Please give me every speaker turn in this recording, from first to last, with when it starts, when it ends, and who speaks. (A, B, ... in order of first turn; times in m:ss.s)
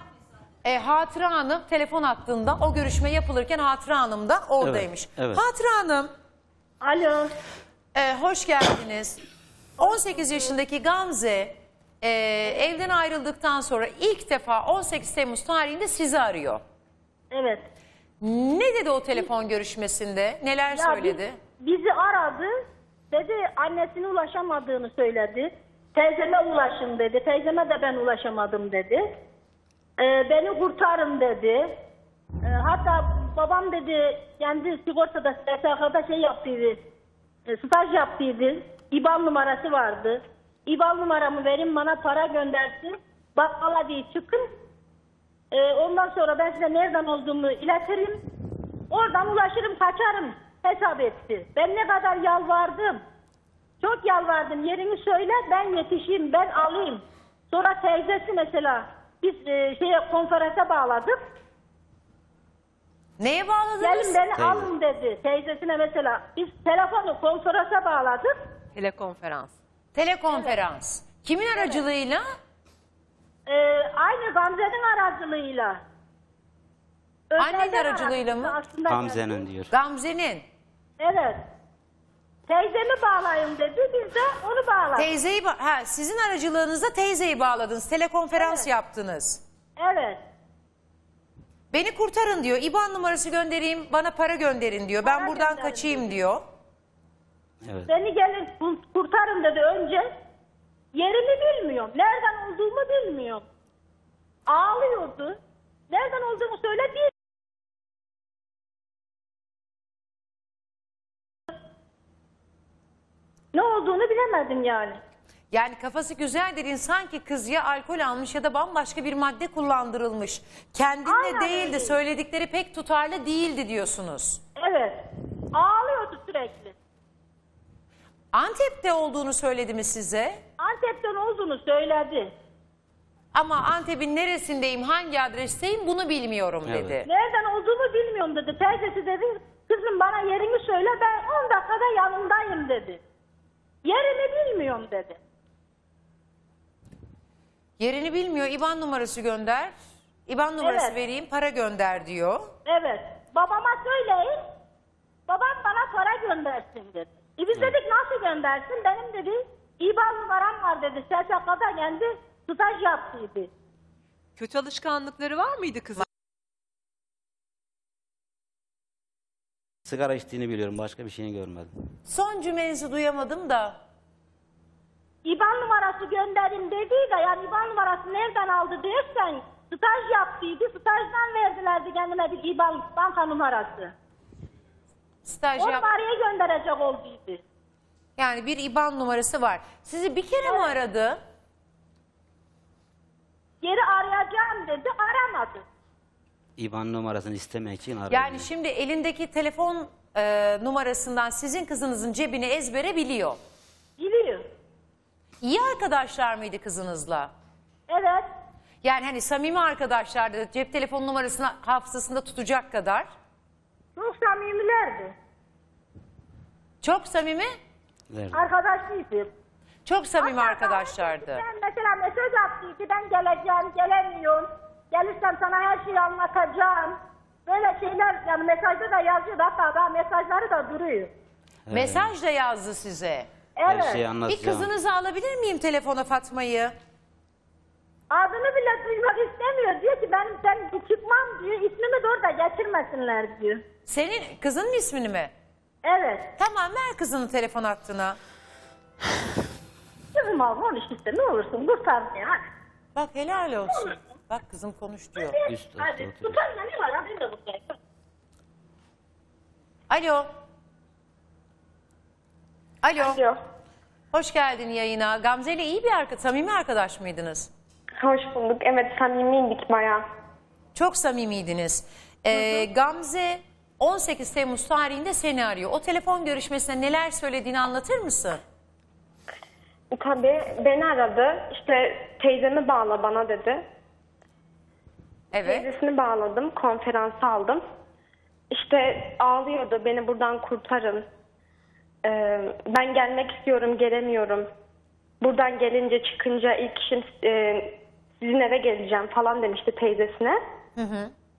0:00.6-0:06.1 A
0:04.6-0:05.4 B
0:06.8-0:07.3 C
0:08.0-0:09.2 A
0:09.8-0:16.6 A
0:17.3-0:17.7 C
0:18.2-0:21.4 A
0:20.7-0:22.5 C
0:23.1-0:29.2 C
0:30.0-0:31.7 C
0:32.4-0:36.8 C
0:37.5-0:44.5 C
0:45.5-0:48.2 C
0:48.9-0:53.0 C
0:53.8-1:01.2 C
1:03.2-1:04.2 A
1:03.8-1:08.4 C
1:04.4-1:04.7 B
1:08.8-1:09.5 D
1:09.9-1:12.2 A
1:10.3-1:10.6 C
1:11.6-1:11.8 C
1:13.5-1:15.8 C
1:17.3-1:19.4 C
1:17.4-1:18.6 A
1:18.9-1:19.7 B
1:19.7-1:20.4 A
1:21.0-1:21.4 C
1:22.5-1:25.1 C
1:25.0-1:29.4 A
1:28.4-1:28.7 C
1:29.8-1:30.2 C
1:31.7-1:36.4 A
1:35.0-1:36.2 C
1:37.6-1:37.9 B
1:37.9-1:40.1 C
1:40.9-1:43.4 C
1:44.5-1:45.4 C
1:45.9-1:47.1 C
1:53.5-1:55.0 C
1:55.5-2:04.4 A
2:01.0-2:02.0 C
2:04.6-2:05.0 C
2:05.5-2:06.8 C
2:08.3-2:10.4 A
2:10.6-2:12.3 C
2:13.3-2:17.1 A
2:16.7-2:17.0 B
2:17.0-2:23.0 C
2:23.8-2:25.2 C
2:27.8-2:29.7 A
2:30.3-2:32.5 A
2:30.6-2:31.0 C
2:32.6-2:34.4 C
2:35.3-2:43.5 C
2:44.4-2:46.0 D
2:49.9-2:51.7 B
2:52.1-2:53.8 A
2:55.2-3:03.9 C
3:05.2-3:05.9 A
3:05.6-3:07.4 C
3:08.2-3:11.2 A
3:10.4-3:10.8 C
3:13.6-3:15.6 C
3:16.6-3:18.5 B
3:18.1-3:23.4 A
3:24.0-3:24.5 C
3:25.4-3:27.3 A
3:27.9-3:28.3 C
3:28.8-3:33.1 A
3:34.0-3:35.2 C
3:36.8-3:37.5 A
3:38.1-3:38.4 B
3:38.3-3:39.3 C
3:39.9-3:41.4 A
3:40.2-3:51.1 C
3:51.7-3:52.1 B
3:51.7-3:53.3 A
3:53.6-3:54.0 C
3:53.7-3:54.7 B
3:54.3-3:56.7 A
3:58.1-4:03.6 C
4:03.9-4:05.3 A
4:05.8-4:06.3 C
4:06.4-4:08.2 A
4:10.1-4:12.4 C
4:13.0-4:15.4 A
4:15.2-4:17.8 C
4:15.5-4:16.3 B
4:19.9-4:20.3 A
4:22.8-4:23.2 A
4:23.0-4:23.4 E
4:24.1-4:27.5 A
4:28.0-4:30.0 E
4:30.8-4:38.4 A
4:32.3-4:32.7 E
4:39.9-4:43.6 E
4:45.3-4:45.7 A
4:45.4-4:47.6 E
4:48.5-4:51.0 E
4:52.0-4:54.5 E
4:55.2-5:00.4 E
5:00.8-5:01.1 A